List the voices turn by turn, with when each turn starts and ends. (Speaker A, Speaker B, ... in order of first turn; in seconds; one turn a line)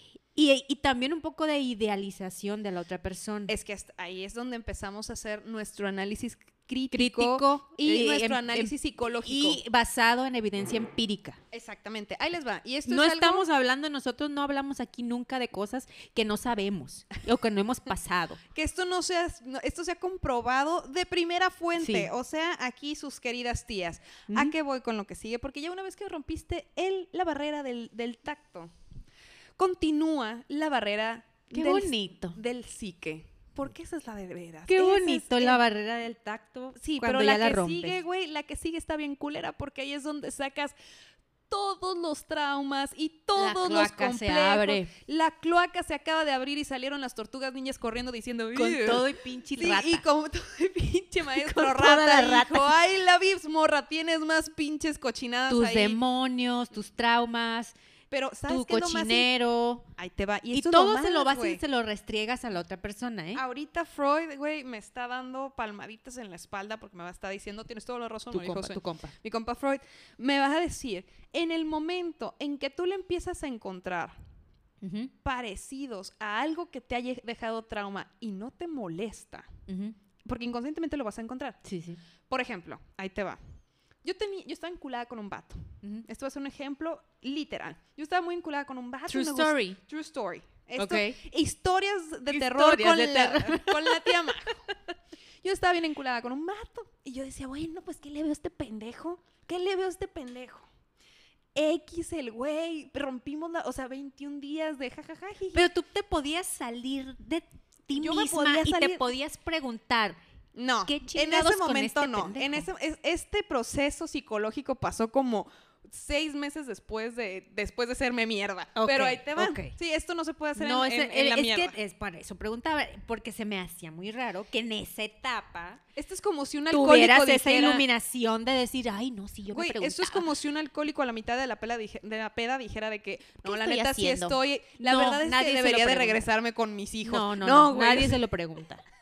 Speaker A: 0.3-3.5
Speaker B: 3.5-9.6
Speaker A: 6.9-11.4
Speaker B: 11.5-13.4
Speaker A: 12.9-18.4
Speaker B: 18.5-28.7
Speaker A: 21.8-22.1
Speaker B: 29.6-35.6
Speaker A: 31.5-32.4
Speaker A: 34.7-38.0
Speaker B: 36.8-40.7
Speaker B: 41.5-56.0
Speaker A: 43.4-44.9
Speaker A: 48.5-50.0
Speaker A: 51.3-52.8
Speaker A: 55.5-57.7
Speaker B: 58.1-59.3
Speaker A: 58.5-59.9
Speaker B: 60.0-61.6
Speaker A: 60.5-63.4
Speaker B: 63.3-74.2
Speaker A: 68.3-69.1
Speaker A: 74.8-75.1
Speaker B: 75.2-79.5
Speaker A: 79.7-80.0
Speaker B: 80.2-81.6
Speaker A: 81.6-82.0
Speaker B: 82.3-83.4
Speaker B: 84.0-94.7
Speaker A: 89.1-89.8
Speaker A: 90.8-91.2
Speaker A: 92.3-94.7
Speaker B: 95.4-100.7
Speaker B: 101.5-105.7
Speaker A: 105.5-110.2
Speaker B: 107.9-109.1
Speaker B: 110.5-121.8
Speaker A: 110.8-112.7
Speaker A: 118.8-119.7
Speaker A: 120.5-125.8
Speaker B: 126.0-127.9
Speaker A: 126.7-130.3
Speaker B: 129.5-138.2
Speaker A: 133.4-136.2
Speaker A: 137.0-138.8